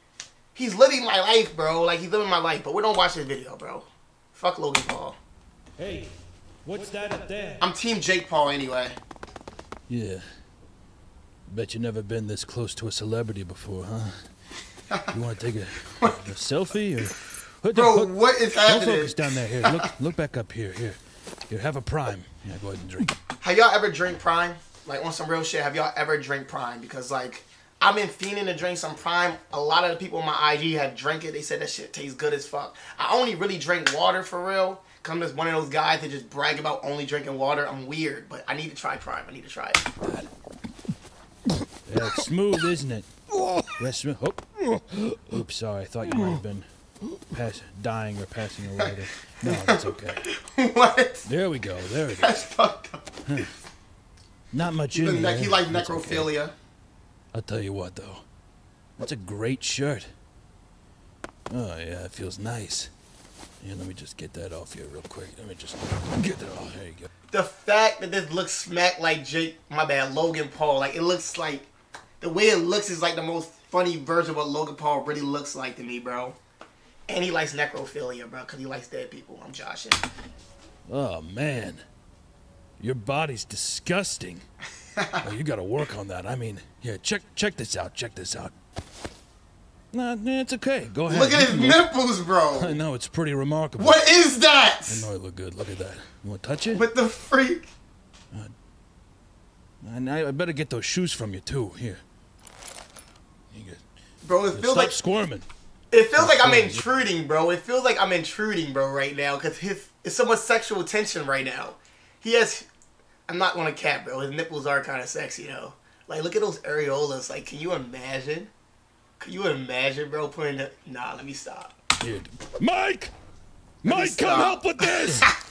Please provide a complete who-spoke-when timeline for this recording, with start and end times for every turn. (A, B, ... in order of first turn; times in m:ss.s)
0:00.5-0:05.2 A
0:05.8-0:06.1 B
0:06.6-0:07.6 B
0:07.6-0:09.0 A
0:09.9-0:10.2 B
0:11.5-0:14.1 B
0:15.1-0:23.2 B
0:16.0-0:16.2 A
0:17.7-0:19.9 A
0:23.4-0:39.8 A
0:40.0-0:40.3 B
0:41.8-0:50.2 B
0:48.8-0:51.3 A
0:51.2-0:52.4 B
0:52.1-0:53.4 A
0:53.2-0:53.5 B
0:54.5-0:56.3 B
0:54.9-0:56.5 A
0:57.3-0:58.2 B
0:59.0-1:00.1 B
1:01.5-1:02.9 B
1:03.6-1:07.1 B
1:07.3-1:11.7 A
1:12.2-1:16.4 A
1:17.1-1:20.0 A
1:20.9-1:21.8 B
1:22.8-1:24.4 B
1:25.0-1:25.2 A
1:25.2-1:28.5 B
1:29.9-1:31.9 B
1:31.1-1:32.8 A
1:32.5-1:34.0 B
1:33.8-1:35.1 A
1:34.9-1:36.8 B
1:36.7-1:37.7 A
1:39.8-1:42.0 B
1:43.5-1:43.8 B
1:44.2-1:45.0 A
1:44.5-1:45.4 B
1:45.9-1:52.7 A
1:46.2-1:46.9 B
1:53.3-1:58.5 A
1:59.2-2:01.7 A
2:02.0-2:03.1 B
2:03.8-2:05.3 A
2:03.8-2:05.3 B